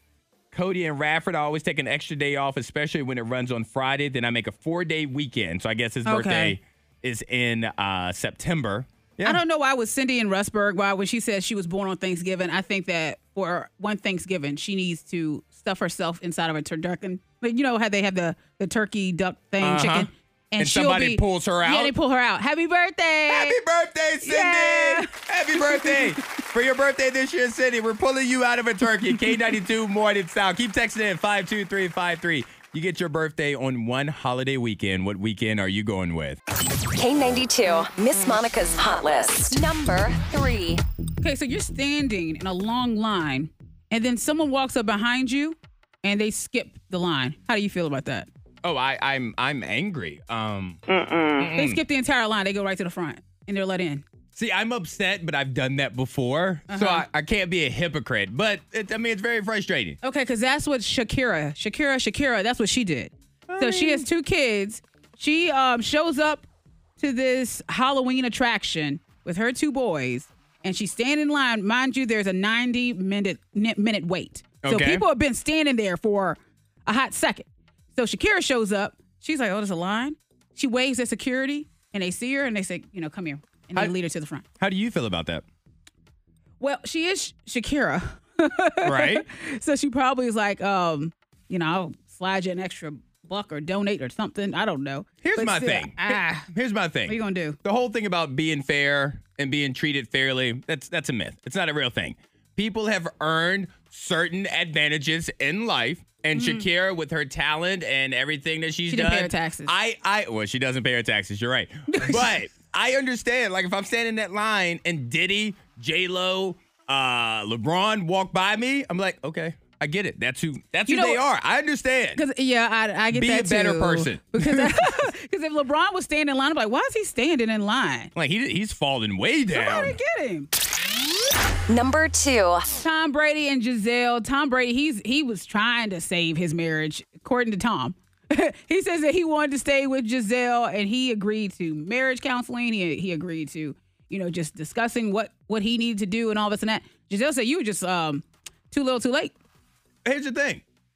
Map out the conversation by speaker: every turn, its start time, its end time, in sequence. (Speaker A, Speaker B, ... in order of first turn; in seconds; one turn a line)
Speaker A: 0.5-9.4
Speaker B: 6.0-6.6
Speaker B: 9.2-23.6
Speaker A: 19.6-21.9
Speaker A: 23.3-36.4
Speaker B: 24.2-26.1
Speaker C: 36.9-40.8
Speaker B: 41.2-48.3
Speaker A: 48.6-50.8
Speaker A: 51.3-51.8
Speaker B: 51.5-54.0
Speaker A: 54.3-60.0
Speaker B: 56.7-57.0
Speaker B: 60.0-66.5
Speaker A: 63.5-64.1
Speaker B: 67.0-84.4
Speaker A: 74.6-75.0
Speaker A: 84.6-85.4
Speaker B: 86.6-96.5
Speaker A: 88.8-89.2
Speaker A: 95.2-122.2
Speaker B: 97.0-97.6
Speaker B: 106.3-106.7
Speaker B: 108.9-109.7
Speaker B: 111.9-112.2
Speaker B: 120.9-121.2
Speaker B: 122.2-128.1
Speaker A: 123.1-124.9
Speaker A: 128.1-130.0
Speaker B: 129.5-130.5
Speaker C: 131.7-132.7
Speaker B: 132.8-149.3
Speaker A: 150.0-150.6